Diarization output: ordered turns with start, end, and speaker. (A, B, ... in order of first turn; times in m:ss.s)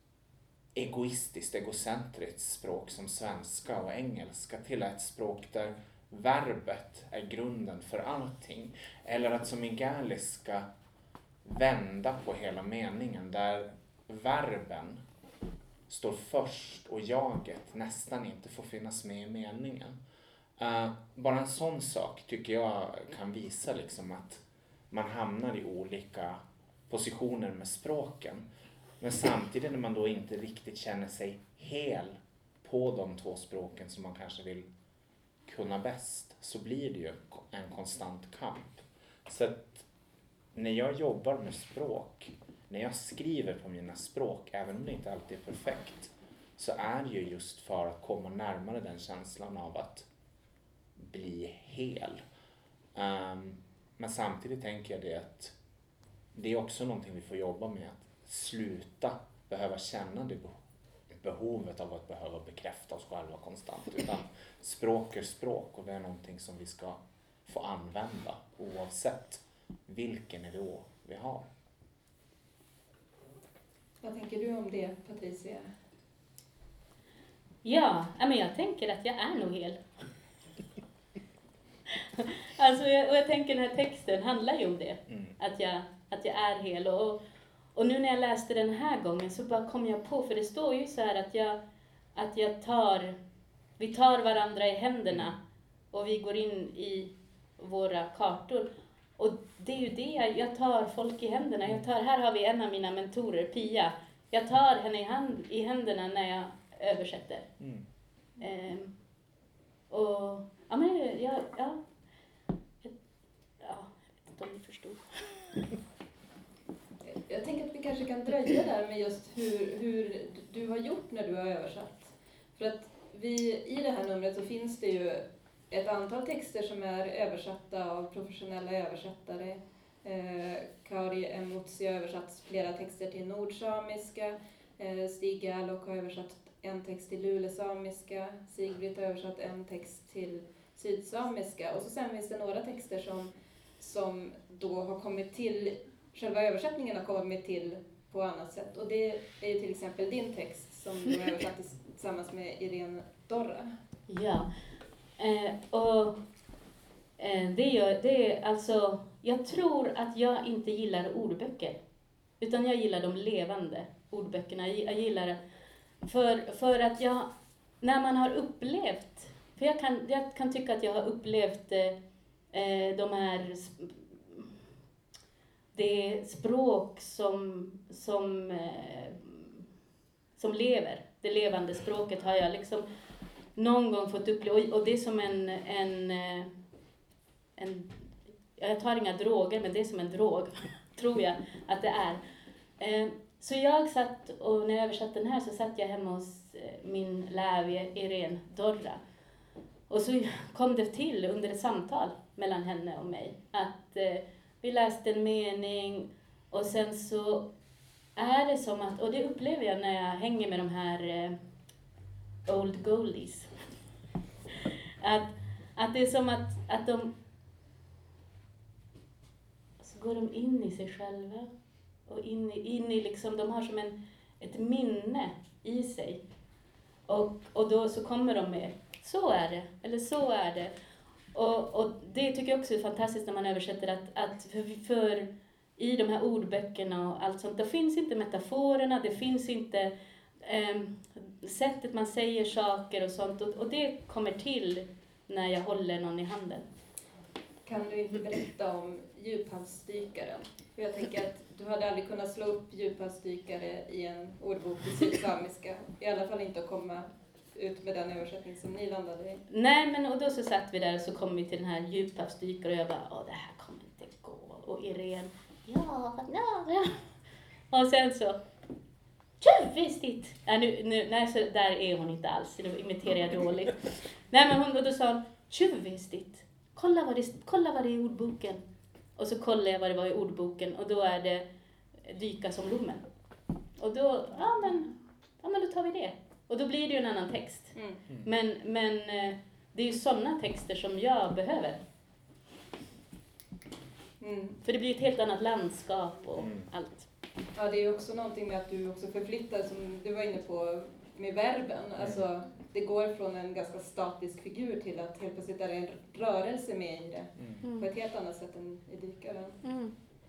0:00.7-0:10.7 A
0:11.4-0:15.0 A
0:15.9-0:20.0 A
0:20.6-0:28.4 A
0:29.0-0:34.7 A
0:35.4-0:39.9 A
0:40.5-0:50.1 A
0:51.0-0:52.2 A
0:52.9-0:55.5 A
0:56.3-1:00.6 A
1:01.1-1:11.4 A
1:14.0-1:15.7 B
1:17.6-1:19.8 C
1:21.9-1:27.2 C
1:25.1-1:25.3 A
1:27.7-1:31.6 C
1:32.1-1:33.2 C
1:33.8-1:35.4 C
1:35.9-1:47.5 C
1:48.4-1:48.9 C
1:49.9-1:51.8 C
1:53.6-1:55.0 C
1:57.0-2:33.7 B
2:34.1-2:34.5 C
2:35.2-2:36.2 C
2:37.2-2:41.8 C
2:42.4-2:45.4 C
2:46.0-2:47.3 C
2:47.8-2:52.0 C
2:52.5-2:54.5 C
2:55.7-2:59.6 C
3:00.4-3:02.8 C
3:03.6-3:06.5 C
3:07.6-3:07.9 C
3:08.5-3:12.2 C
3:12.8-3:19.0 C
3:19.9-3:27.5 C
3:28.2-3:31.4 C
3:32.4-3:33.5 C
3:35.0-3:37.1 C
3:39.8-3:41.5 C
3:42.1-3:46.2 C
3:47.1-3:50.7 C
3:51.3-4:06.7 C
4:07.6-4:19.4 B
4:19.5-4:27.0 C
4:27.7-4:28.4 C
4:29.4-4:38.6 C
4:39.2-4:41.4 C
4:42.0-4:43.0 C
4:43.8-4:51.8 C
4:47.8-4:48.0 B
4:54.2-4:54.6 B
4:54.6-4:57.1 C
4:56.4-4:56.7 A
4:57.6-5:09.6 B
5:07.6-5:07.9 C
5:09.6-5:09.9 C